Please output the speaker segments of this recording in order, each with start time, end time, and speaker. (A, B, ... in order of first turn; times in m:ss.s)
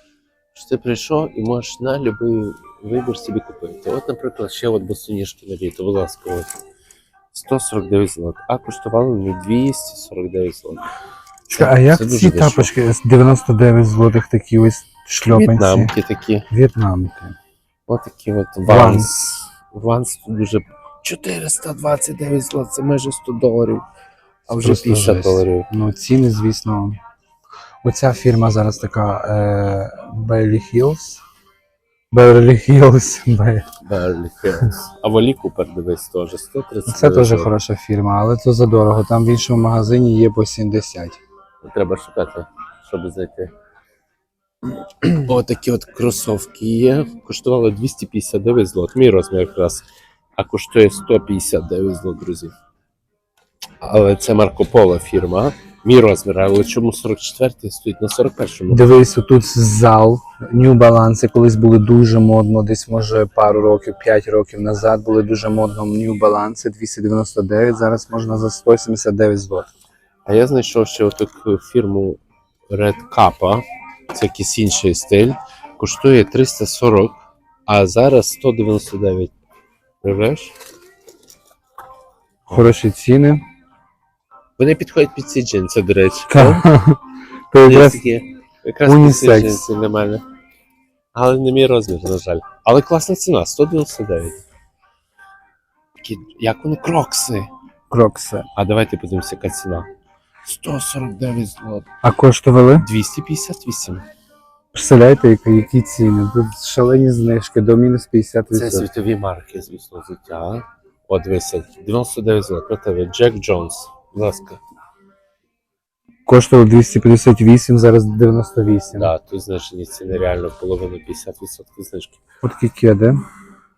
0:00.5-0:06.6 A
0:07.3-0:10.8 A
0:11.5-0:15.9 B
0:11.5-0:12.7 A
0:15.3-0:16.5 A
0:16.5-0:17.4 B
0:17.9-0:23.8 A
0:18.7-0:19.5 B
0:24.5-0:25.7 A
0:24.5-0:27.0 B
0:27.8-0:31.2 B
0:32.1-0:33.7 B
0:33.8-0:37.5 A
0:36.9-0:41.2 B
0:41.6-0:43.5 A
0:45.0-0:49.8 A
0:50.4-0:52.5 A
0:53.8-0:58.8 A
0:58.7-1:09.7 B
1:10.3-1:19.3 A
1:20.0-1:20.6 A
1:22.5-1:23.4 B
1:24.6-1:26.7 A
1:26.3-1:27.0 B
1:27.5-1:28.0 B
1:27.6-1:30.2 A
1:28.8-1:29.6 B
1:31.1-1:34.4 A
1:36.0-1:37.5 A
1:37.9-1:38.5 B
1:38.6-1:39.9 A
1:40.4-1:41.9 A
1:42.0-1:42.9 B
1:42.8-1:44.0 A
1:44.7-1:48.9 B
1:48.5-1:54.6 A
1:56.3-1:59.1 B
1:59.0-2:02.2 A
2:02.4-2:03.2 B